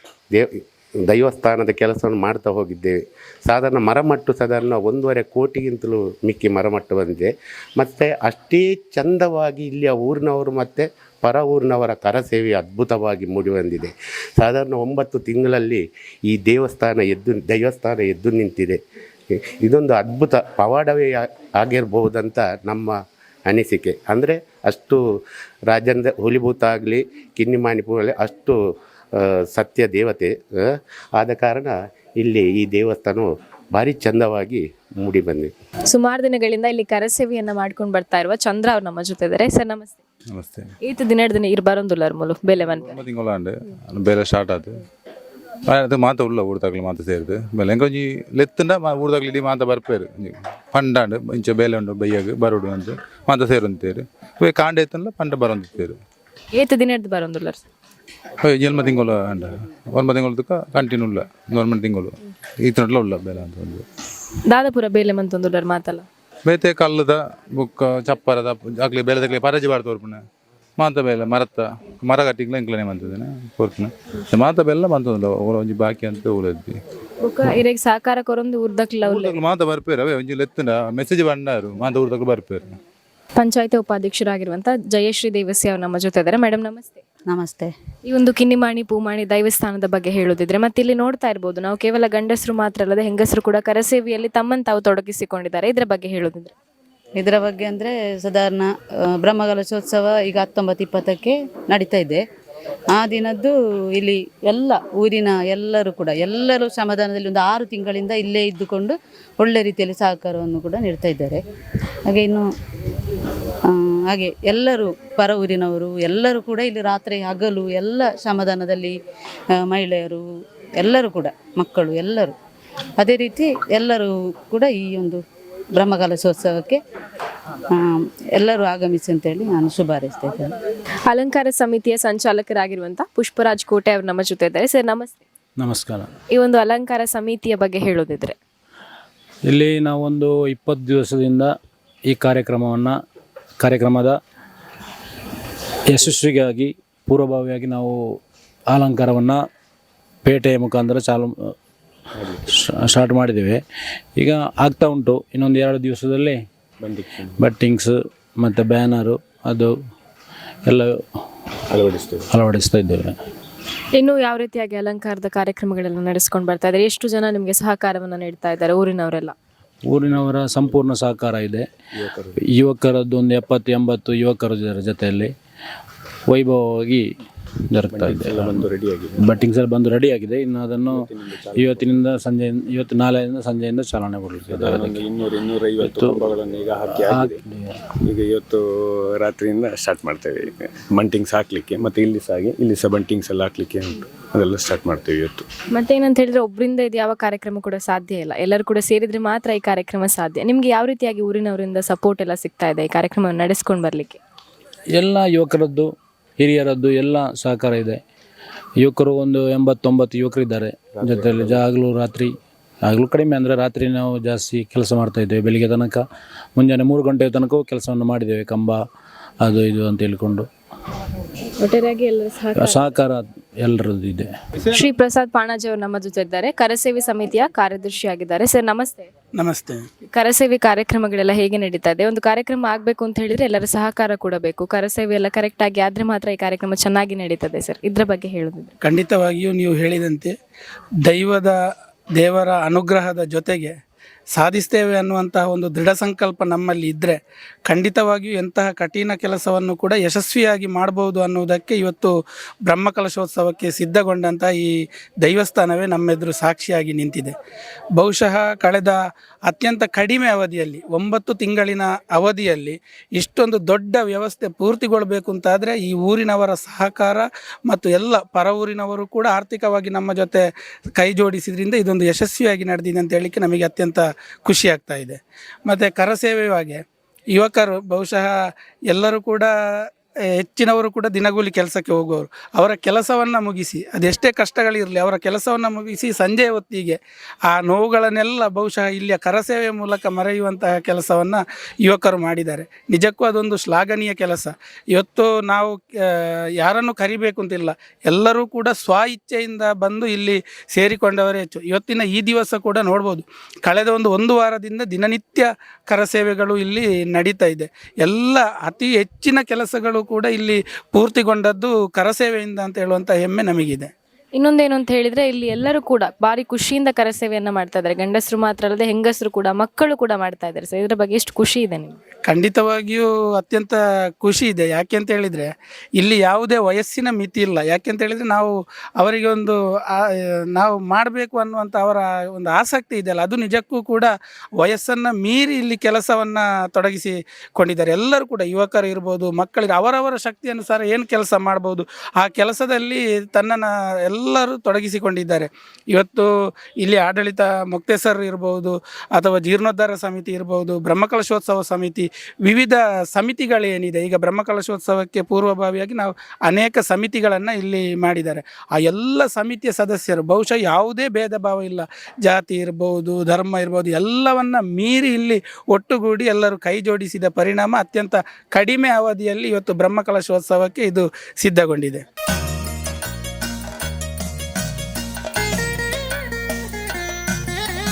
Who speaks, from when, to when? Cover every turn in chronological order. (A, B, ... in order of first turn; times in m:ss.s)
0:00.3-0:18.8 A
0:19.3-0:25.0 A
0:25.7-0:28.6 A
0:29.1-0:35.5 A
0:35.9-0:40.0 B
0:40.3-0:40.7 C
0:40.8-0:43.0 B
0:42.9-0:44.8 C
0:45.7-0:56.0 C
0:56.5-0:57.7 B
0:58.4-1:03.8 C
1:04.5-1:06.1 B
1:06.5-1:10.2 C
1:10.8-1:16.8 C
1:17.2-1:19.4 B
1:19.1-1:22.8 C
1:23.4-1:27.0 B
1:27.3-1:27.7 D
1:28.1-1:36.5 B
1:37.2-1:42.2 D
1:42.9-1:51.4 D
1:52.1-1:52.5 D
1:53.7-1:59.0 D
1:59.5-2:00.2 D
2:00.8-2:02.3 D
2:03.0-2:05.2 D
2:05.8-2:06.8 D
2:07.7-2:10.5 D
2:11.1-2:15.2 B
2:15.6-2:16.1 E
2:16.3-2:18.4 B
2:19.5-2:21.5 E
2:22.1-2:23.0 E
2:23.6-2:24.2 E
2:25.9-2:28.0 E
2:28.7-2:29.4 E
2:30.2-2:31.5 E
2:32.2-2:32.4 F
2:32.5-2:33.6 E
2:34.2-2:36.4 E
2:36.8-2:37.3 F
2:37.4-2:39.8 E
2:40.7-2:41.0 E
2:41.7-2:42.3 F
2:42.3-2:43.2 E
2:43.9-2:49.4 B
2:49.9-2:51.7 E
2:52.0-2:52.3 F
2:52.4-2:55.3 E
2:56.3-2:57.1 E
2:57.7-3:05.1 E
2:58.0-2:59.2 F
3:01.0-3:01.8 F
3:04.6-3:07.4 F
3:05.8-3:06.3 E
3:06.9-3:07.9 E
3:08.0-3:15.5 F
3:15.7-3:24.2 B
3:24.9-3:28.0 E
3:28.8-3:32.3 E
3:32.8-3:36.0 E
3:36.6-3:38.8 E
3:39.4-3:40.5 E
3:41.6-3:42.8 B
3:42.6-3:44.3 E
3:44.7-3:49.1 B
3:49.4-3:49.9 G
3:50.0-3:58.8 B
3:58.8-4:00.4 G
4:01.0-4:01.6 G
4:02.2-4:03.8 G
4:04.3-4:12.1 G
4:12.7-4:17.3 G
4:18.0-4:38.4 G
4:38.9-4:39.5 G
4:40.2-5:13.9 G
5:14.4-5:22.0 B
5:22.3-6:12.0 G